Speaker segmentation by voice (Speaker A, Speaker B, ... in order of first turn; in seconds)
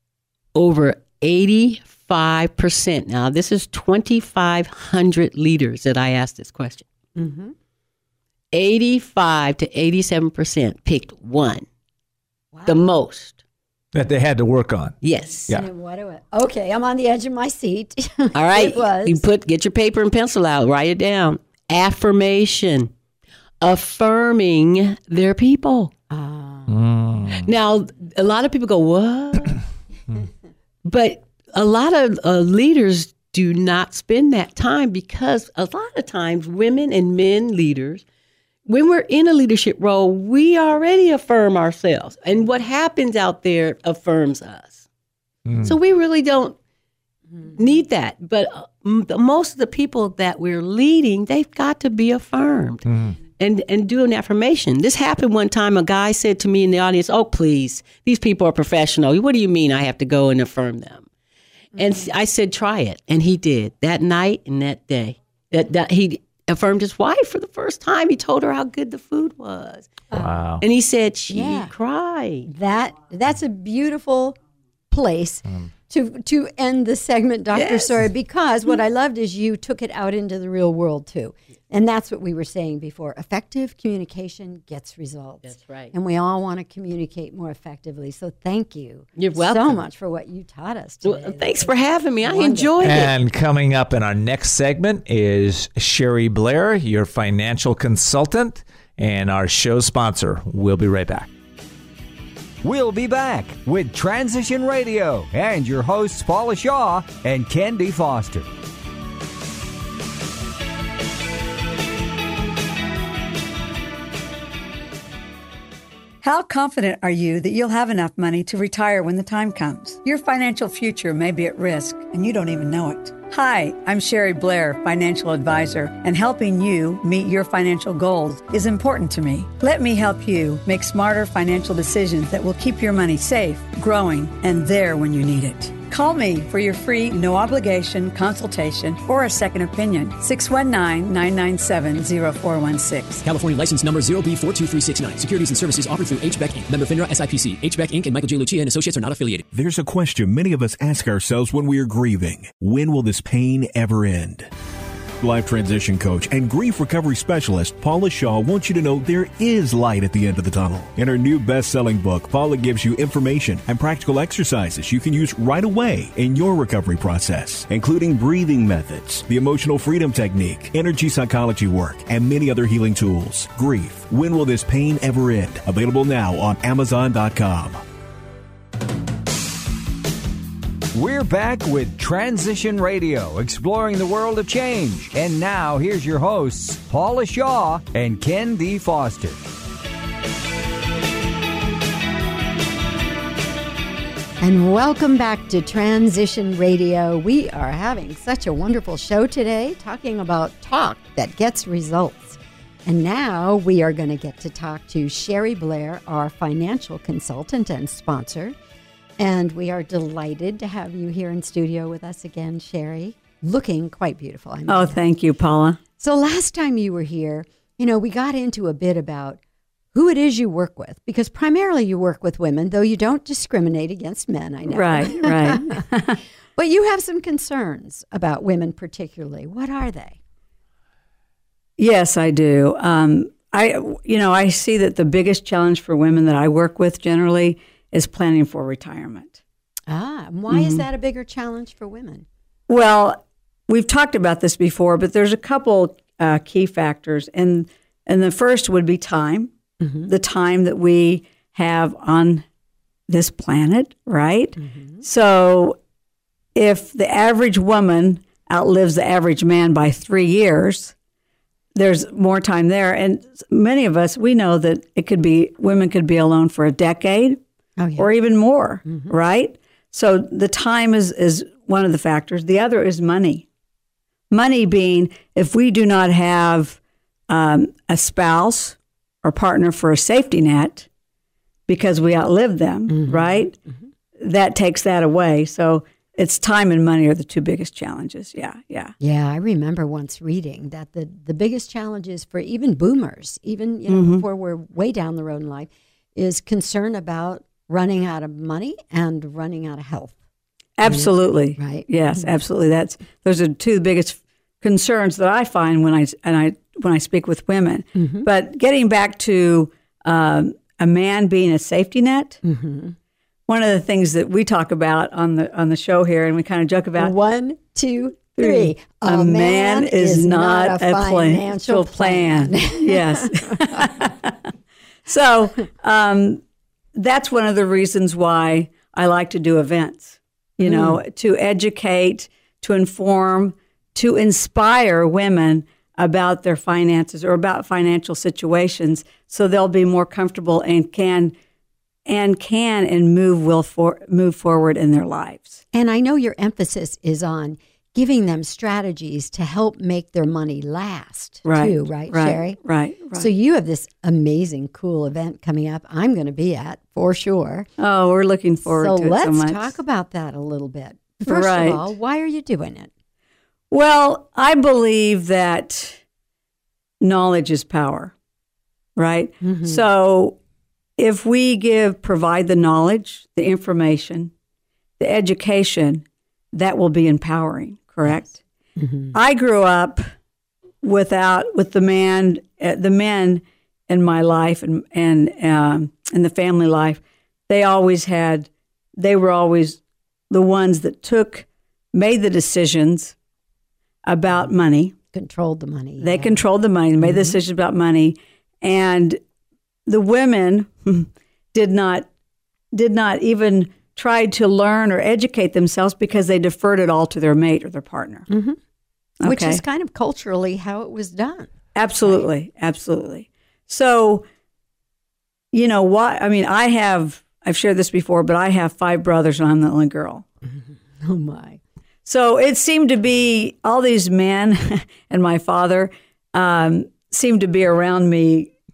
Speaker A: 0.6-6.8, 8.5-11.7, 12.7-13.4, 15.0-15.5, 18.3-22.9, 23.6-25.9, 27.4-29.6, 30.9-38.0, 38.7-44.8, 45.6-46.6, 47.6-52.9, 53.4-61.1, 61.8-69.9, 70.6-72.5, 77.5-77.9, 85.4-85.9, 89.2-89.8, 91.0-93.1
Speaker B: 7.2-7.5, 12.5-12.8, 15.5-19.2, 26.1-26.7, 71.3-71.7, 72.5-74.4, 74.9-92.7, 194.4-208.6, 209.2-215.0, 216.0-219.4, 219.9-225.8, 226.6-230.2, 239.9-242.3, 249.8-250.1, 254.6-255.0, 267.8-268.1, 268.9-269.1, 282.9-283.7, 289.0-300.2, 300.8-302.3, 308.0-308.3, 312.4-312.9, 317.0-323.9, 330.6-331.0, 345.7-352.6, 353.1-357.7, 358.6-362.9, 369.4-369.8, 378.8-379.2, 395.1-396.4, 397.0-397.4, 408.3-408.6, 409.2-411.5, 420.5-421.6
Speaker C: 13.9-15.0, 26.7-27.5, 45.5-45.8, 52.9-53.1, 70.2-70.6, 92.8-101.3
Speaker D: 102.6-108.5, 180.9-189.4
Speaker E: 116.2-143.2, 214.7-215.8, 224.7-226.2, 231.8-239.4, 240.5-240.8, 242.7-249.5, 250.1-252.4, 253.1-255.8, 256.6-260.9, 261.8-267.4, 268.0-273.4, 274.3-276.8, 277.3-280.9, 281.7-283.5, 284.2-288.9, 293.9-294.2, 300.8-312.4, 313.5-317.1, 318.4-324.4, 325.1-326.4, 326.9-341.4, 342.1-345.6, 351.5-353.3, 357.8-359.7, 361.2-361.9, 363.7-366.0, 367.0-368.1, 369.0-370.4, 371.0-374.3, 375.0-378.4, 379.1-380.1, 380.8-393.1, 394.1-394.9, 396.0-399.2, 399.9-402.1, 402.7-408.3, 409.2-409.6, 411.8-414.2, 415.5-420.2, 422.1-428.5
Speaker F: 143.2-149.4
Speaker G: 149.5-154.5, 155.2-177.8